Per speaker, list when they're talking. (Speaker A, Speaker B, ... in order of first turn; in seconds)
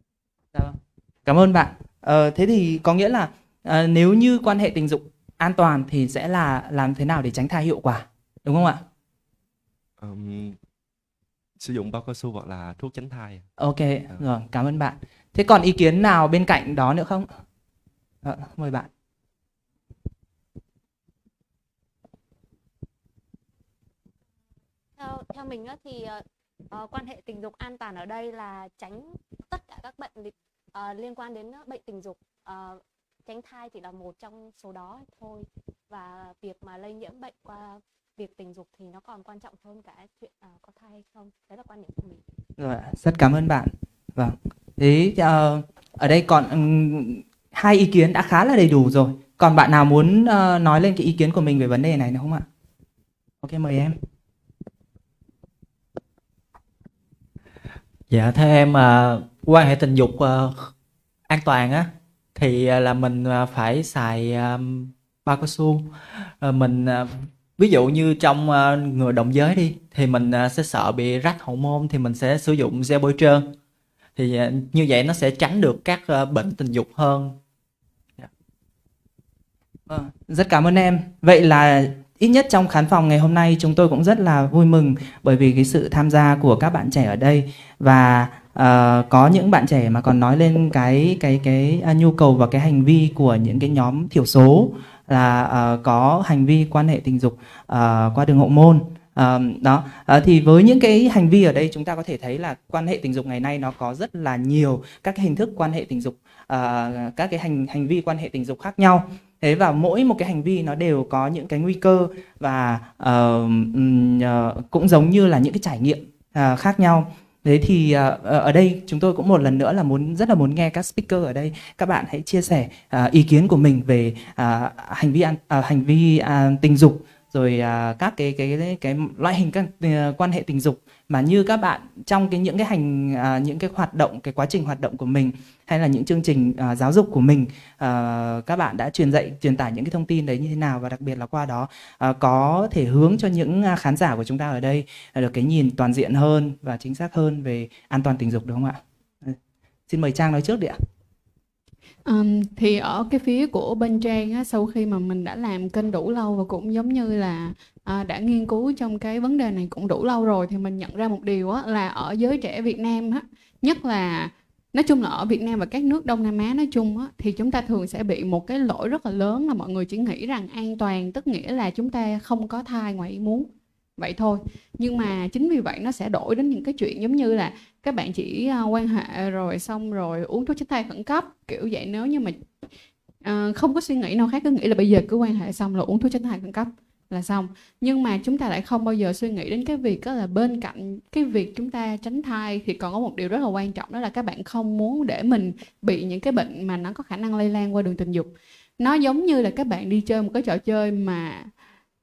Speaker A: 0.5-8.8, 13.6-17.4, 18.2-18.9, 42.6-52.5, 53.4-54.0, 79.9-149.4, 149.9-150.8
Speaker B: 10.0-10.6, 11.6-13.5
Speaker C: 25.0-42.2
Speaker D: 58.1-60.7, 61.3-73.5, 74.2-77.4
Speaker E: 152.1-182.4, 183.2-201.5